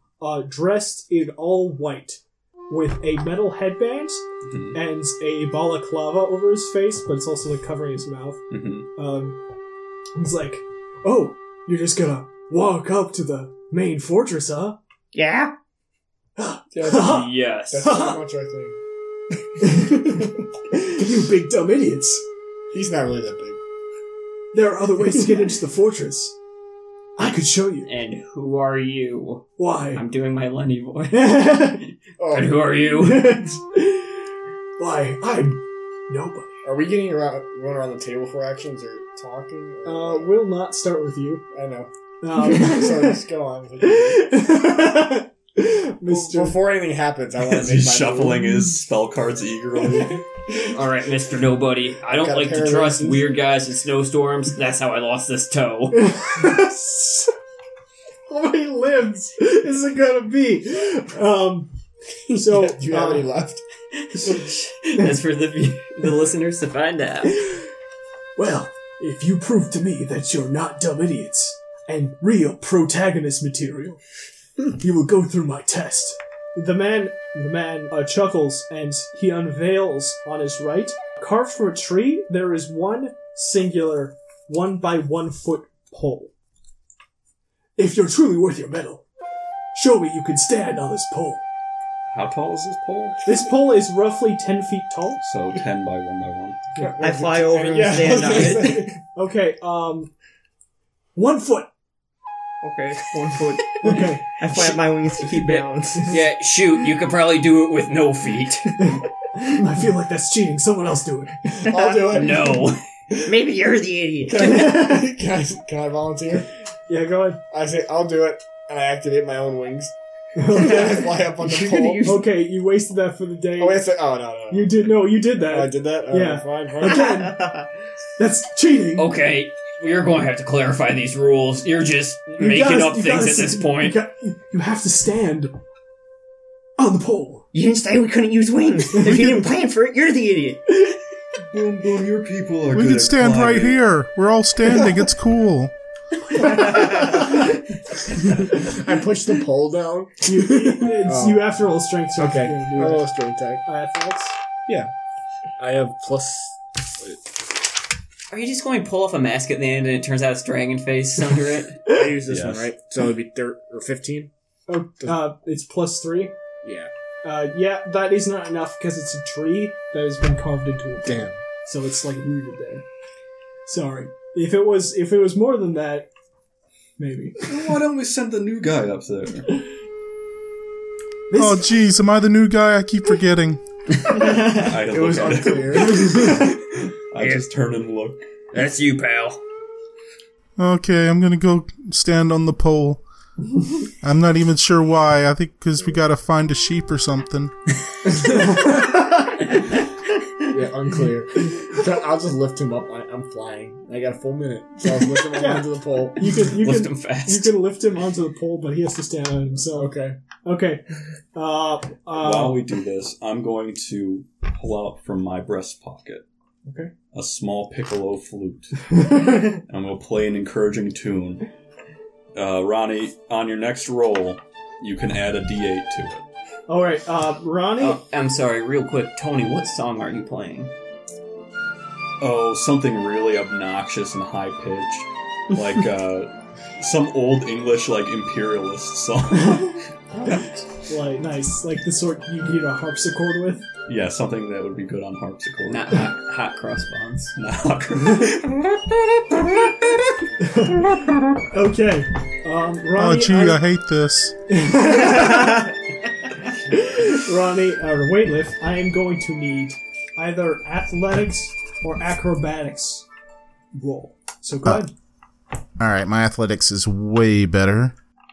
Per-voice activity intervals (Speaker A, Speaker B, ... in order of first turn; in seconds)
Speaker A: 0.2-8.4, 8.9-9.4, 10.2-14.8, 16.4-18.2, 19.6-22.2, 24.5-26.4, 27.2-27.9, 29.6-30.0, 31.1-31.9, 33.0-34.2, 34.8-36.6, 39.8-41.4, 42.2-43.2, 43.8-46.6, 55.9-57.3, 58.3-61.7, 62.3-63.3, 67.3-67.6, 68.3-74.0, 74.7-86.3, 87.8-89.0, 89.7-91.4, 93.2-95.2, 96.8-97.0, 97.7-100.1, 101.1-101.7, 103.8-104.3, 108.8-111.7, 114.4-115.0, 116.9-117.4, 120.3-121.2, 122.0-123.8, 124.5-127.5, 128.2-129.1, 132.4-135.5, 136.8-137.4, 139.0-139.3, 146.4-147.2, 150.2-153.1, 153.6-154.3, 164.7-166.3, 167.2-172.8, 173.7-176.1, 177.0-177.4, 181.3-181.7, 198.2-198.9, 205.3-209.9, 210.4-212.6, 216.6-216.9, 226.7-228.0, 240.2-243.7, 250.4-253.6, 254.5-255.7, 256.6-263.1, 263.7-264.9
Speaker B: 4.5-4.8, 8.5-8.9, 47.4-50.2, 92.1-93.3, 95.2-96.6, 141.5-143.8, 162.3-162.7, 177.4-179.6, 184.2-188.2, 212.1-216.2, 217.1-221.5, 222.3-226.2, 232.2-239.8, 243.8-246.1, 247.4-249.8
Speaker C: 15.1-15.5, 97.0-98.9, 102.6-106.2, 113.2-114.8, 121.4-122.3, 127.1-127.7, 137.5-140.6
Speaker D: 16.7-18.8, 22.7-23.6, 32.2-32.8, 36.6-40.3, 41.5-44.7, 46.1-48.5, 52.1-53.3, 62.3-63.6, 96.8-99.0, 111.6-112.6, 114.3-116.5, 117.5-122.2, 123.6-127.1, 146.6-147.2, 148.1-151.5, 152.2-153.6, 155.6-157.3, 161.8-164.3, 166.6-166.9, 171.1-171.4, 184.1-186.6, 200.4-206.3, 209.7-210.2
Speaker E: 16.9-18.0, 27.9-33.5, 50.7-56.1, 64.2-67.4, 105.4-108.8, 112.0-112.8, 129.0-134.0, 158.3-161.8, 187.2-187.4, 188.5-189.4, 206.4-207.6, 227.8-230.7, 245.7-247.3
Speaker F: 142.7-145.7, 181.3-183.6, 190.6-193.0, 194.0-197.5, 253.0-254.3, 265.8-267.9